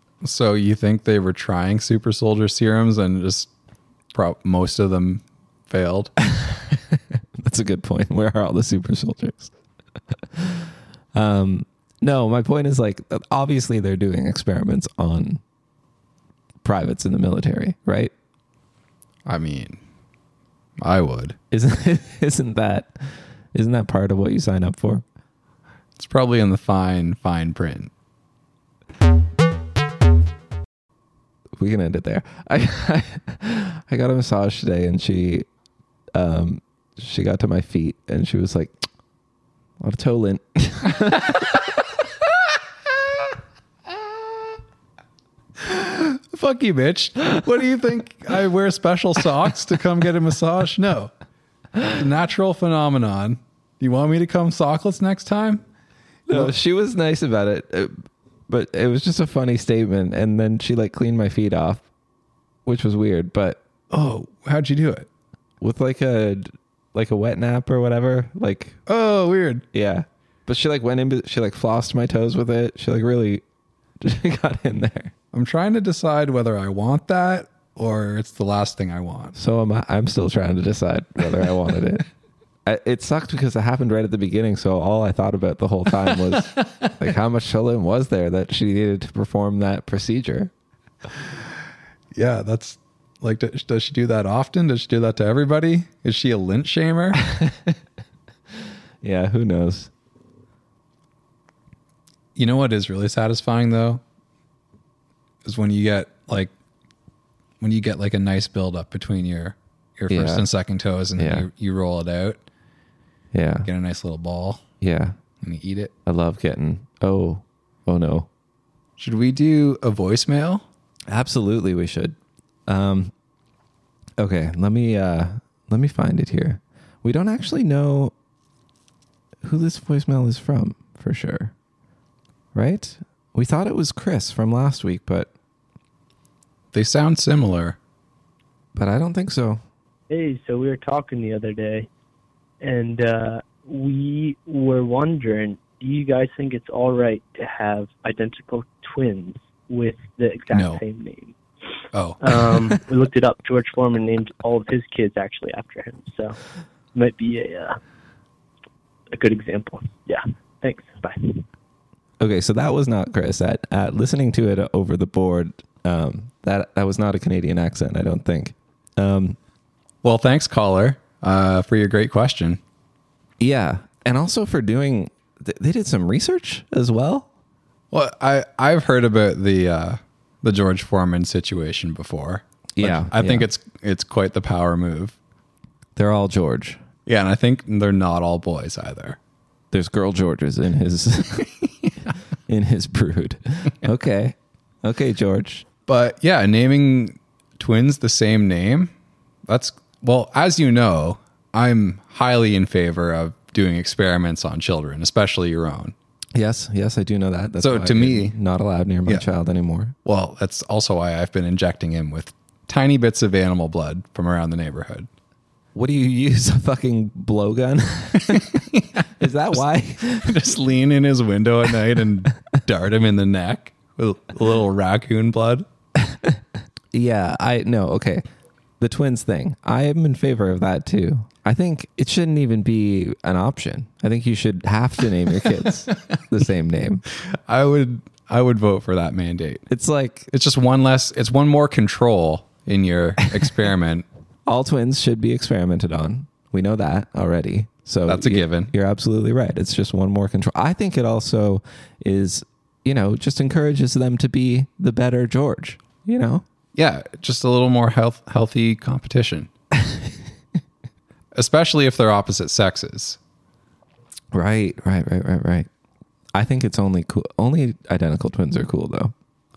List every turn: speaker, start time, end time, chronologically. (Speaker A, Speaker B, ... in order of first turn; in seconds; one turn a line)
Speaker A: 0.2-3.5
Speaker A: 4.1-6.1
Speaker B: 6.3-9.5
Speaker B: 10.3-15.4
Speaker B: 16.6-18.1
Speaker A: 19.3-19.8
Speaker A: 20.8-21.4
Speaker B: 21.5-23.0
Speaker B: 23.5-25.0
Speaker A: 26.0-27.9
Speaker B: 31.6-35.5
Speaker B: 36.1-38.8
Speaker B: 39.8-41.9
Speaker A: 45.7-51.1
Speaker A: 51.8-55.6
Speaker B: 56.3-57.9
Speaker B: 58.5-61.9
Speaker B: 62.6-63.6
Speaker A: 63.9-65.1
Speaker B: 65.6-68.8
Speaker A: 68.9-69.6
Speaker B: 69.7-73.4
Speaker B: 74.0-75.1
Speaker A: 75.3-79.3
Speaker B: 79.3-82.0
Speaker B: 82.7-90.5
Speaker A: 92.1-97.2
Speaker B: 97.2-97.8
Speaker B: 99.0-99.9
Speaker A: 102.3-104.0
Speaker A: 105.4-106.5
Speaker A: 107.6-112.4
Speaker B: 110.1-110.4
Speaker B: 111.2-111.5
Speaker B: 113.3-113.7
Speaker A: 113.6-114.6
Speaker B: 114.8-115.1
Speaker A: 115.4-115.9
Speaker B: 116.0-118.3
Speaker A: 119.0-120.6
Speaker B: 121.1-122.2
Speaker B: 122.7-123.1
Speaker B: 124.2-128.1
Speaker B: 129.4-131.5
Speaker B: 132.5-135.3
Speaker A: 136.7-137.8
Speaker B: 138.7-139.6
Speaker C: 140.1-141.9
Speaker C: 142.6-151.3
Speaker A: 150.5-150.8
Speaker A: 151.9-152.7
Speaker C: 152.2-156.4
Speaker C: 156.9-157.8
Speaker C: 159.1-161.4
Speaker B: 162.2-169.4
Speaker A: 170.0-172.6
Speaker B: 173.4-177.3
Speaker A: 177.9-185.2
Speaker B: 182.8-183.5
Speaker B: 185.9-186.8
Speaker A: 187.1-189.2
Speaker B: 189.7-191.5
Speaker B: 192.5-195.7
Speaker A: 195.9-198.9
Speaker A: 199.5-205.9
Speaker B: 206.3-209.9
Speaker A: 207.6-208.3
Speaker A: 210.0-215.1
Speaker B: 215.7-218.6
Speaker A: 218.5-225.6
Speaker B: 219.2-220.5
Speaker B: 226.1-226.3
Speaker B: 226.9-228.2
Speaker B: 228.8-237.0
Speaker A: 237.5-239.6
Speaker B: 239.7-240.3
Speaker A: 240.3-244.0
Speaker B: 244.4-256.4
Speaker A: 248.1-248.7
Speaker A: 256.7-259.5
Speaker A: 261.3-263.2
Speaker B: 264.3-265.7
Speaker B: 266.3-269.1